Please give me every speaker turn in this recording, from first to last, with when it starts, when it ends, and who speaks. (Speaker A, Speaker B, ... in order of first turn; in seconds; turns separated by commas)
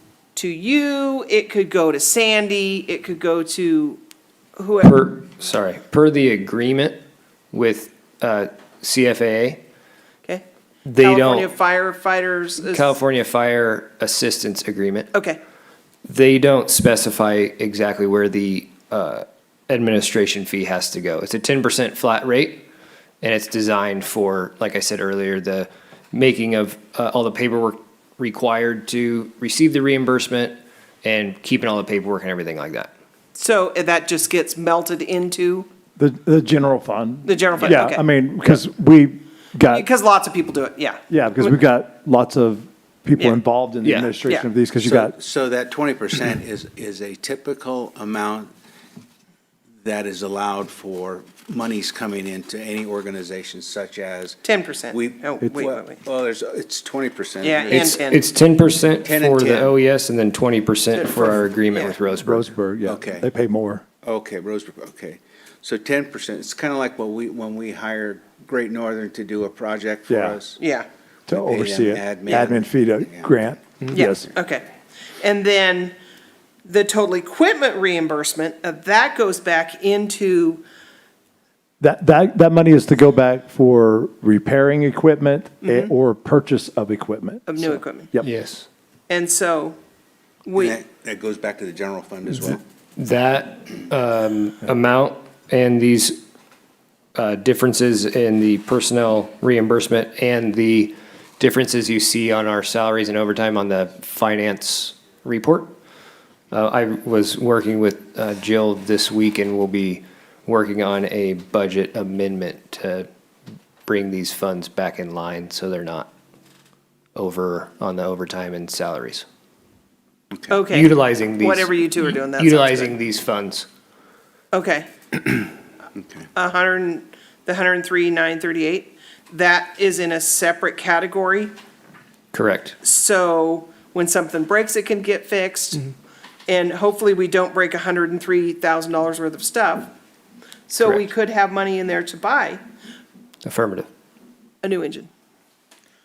Speaker A: 0.3-4.0, Speaker A: 4.6-5.0, Speaker B: 4.8-7.0, Speaker B: 7.5-9.6, Speaker B: 10.8-11.5, Speaker A: 11.0-12.9, Speaker B: 12.6-15.1, Speaker A: 15.1-15.4, Speaker B: 16.1-22.6, Speaker B: 23.2-32.9, Speaker A: 33.4-35.7, Speaker C: 36.0-39.9, Speaker A: 37.2-38.0, Speaker A: 39.7-41.5, Speaker C: 41.1-45.1, Speaker B: 43.8-44.1, Speaker D: 44.8-48.5, Speaker D: 49.8-58.0, Speaker A: 54.4-56.0, Speaker C: 55.4-55.7, Speaker A: 57.4-58.2, Speaker B: 57.7-62.5, Speaker D: 59.0-59.7, Speaker A: 61.0-62.0, Speaker C: 62.2-63.9, Speaker D: 62.8-63.3, Speaker D: 64.0-70.6, Speaker C: 70.1-70.4, Speaker A: 70.6-70.9, Speaker C: 71.3-74.3, Speaker D: 71.3-73.3, Speaker A: 73.9-74.7, Speaker A: 75.2-76.0, Speaker A: 76.7-80.6, Speaker C: 81.8-88.3, Speaker A: 85.6-85.9, Speaker A: 87.5-88.1, Speaker B: 88.2-88.7, Speaker A: 89.1-89.8, Speaker A: 90.5-90.8, Speaker D: 90.6-92.6, Speaker B: 93.0-96.2, Speaker B: 97.2-105.7, Speaker B: 106.5-113.1, Speaker B: 113.9-116.1, Speaker B: 117.2-119.2, Speaker A: 120.5-122.9, Speaker B: 120.7-123.7, Speaker A: 124.5-124.9, Speaker A: 126.3-131.5, Speaker B: 132.3-132.8, Speaker A: 132.8-135.9, Speaker A: 136.5-139.9, Speaker A: 140.7-142.6, Speaker B: 140.8-141.1, Speaker B: 143.4-143.9, Speaker A: 144.6-145.1